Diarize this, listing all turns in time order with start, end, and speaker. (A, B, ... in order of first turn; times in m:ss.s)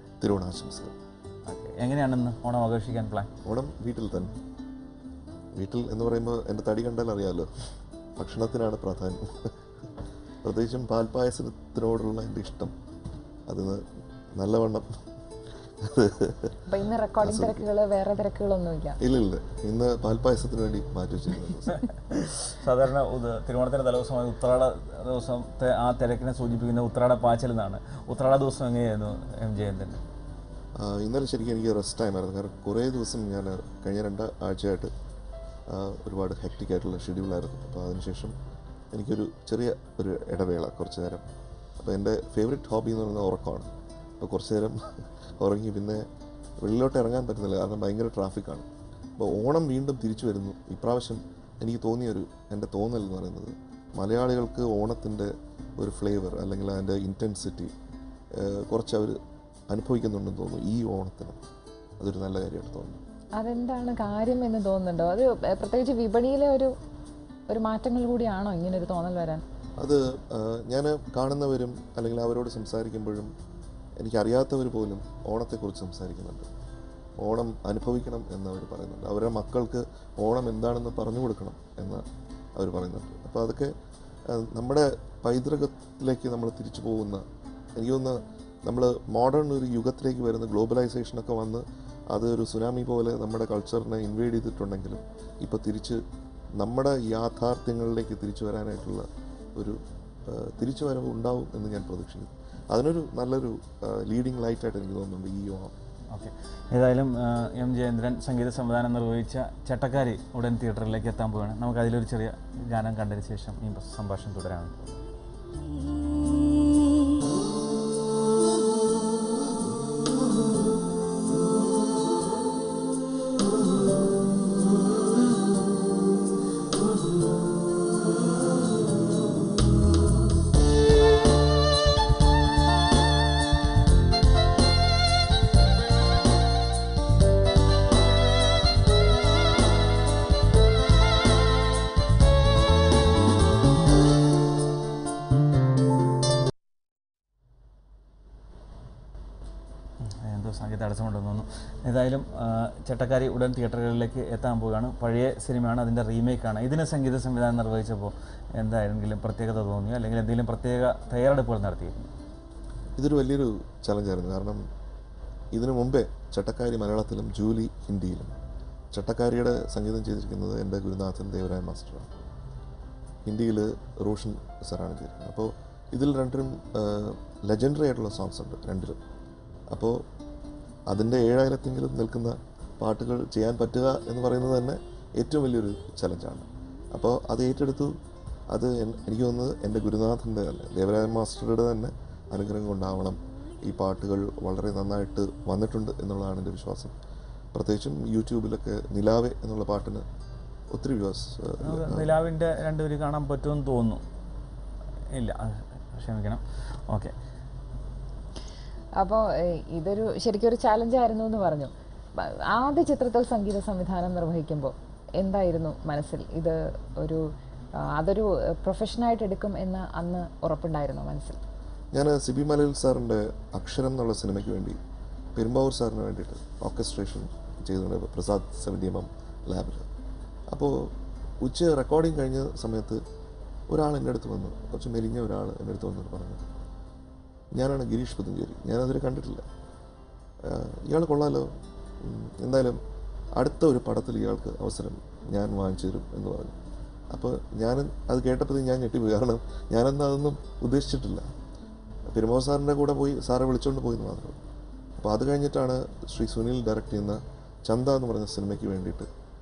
0:00.2-0:00.9 A
0:01.5-0:03.3 B
0:03.4-0:04.4 A
0:05.5-0:07.5 A
0:08.2-0:09.9 A
0:10.4-0:12.7 A
0:13.5-0:15.0 A
0:15.8-0:16.6 A
0:16.7-0:19.0 C
0:17.2-0:17.7 A
0:19.0-0:21.8 A
0:21.8-0:30.0 B
0:30.8-0:34.9 A
0:35.7-0:38.4 A
0:38.9-0:41.3 A
0:41.8-0:46.1 A
0:46.6-0:57.7 A
0:58.3-1:01.4 A
1:02.0-1:03.0 A
1:03.4-1:06.7 C
1:07.5-1:09.4 C
1:09.8-1:13.3 A
1:14.0-1:16.5 A
1:17.2-1:22.0 A
1:22.6-1:23.7 A
1:24.3-1:27.2 A
1:27.8-1:36.0 A
1:36.6-1:45.8 A
1:46.1-1:54.9 B
2:30.0-2:42.1 B
2:43.0-2:44.6 A
2:45.5-2:48.4 A
2:48.9-2:52.1 A
2:53.3-2:59.0 A
2:59.7-3:00.0 A
3:00.9-3:08.0 A
3:08.5-3:17.0 A
3:17.5-3:20.0 A
3:20.7-3:22.1 A
3:21.6-3:24.0 B
3:25.1-3:27.1 B
3:29.0-3:41.4 C
3:41.9-3:44.8 A
3:45.4-3:49.9 A
3:50.5-3:53.0 A
3:53.7-3:56.4 A
3:57.5-3:59.5 A
4:00.4-4:02.8 A
4:03.4-4:06.6 A
4:07.1-4:11.3 A
4:12.1-4:14.4 A
4:15.0-4:19.1 A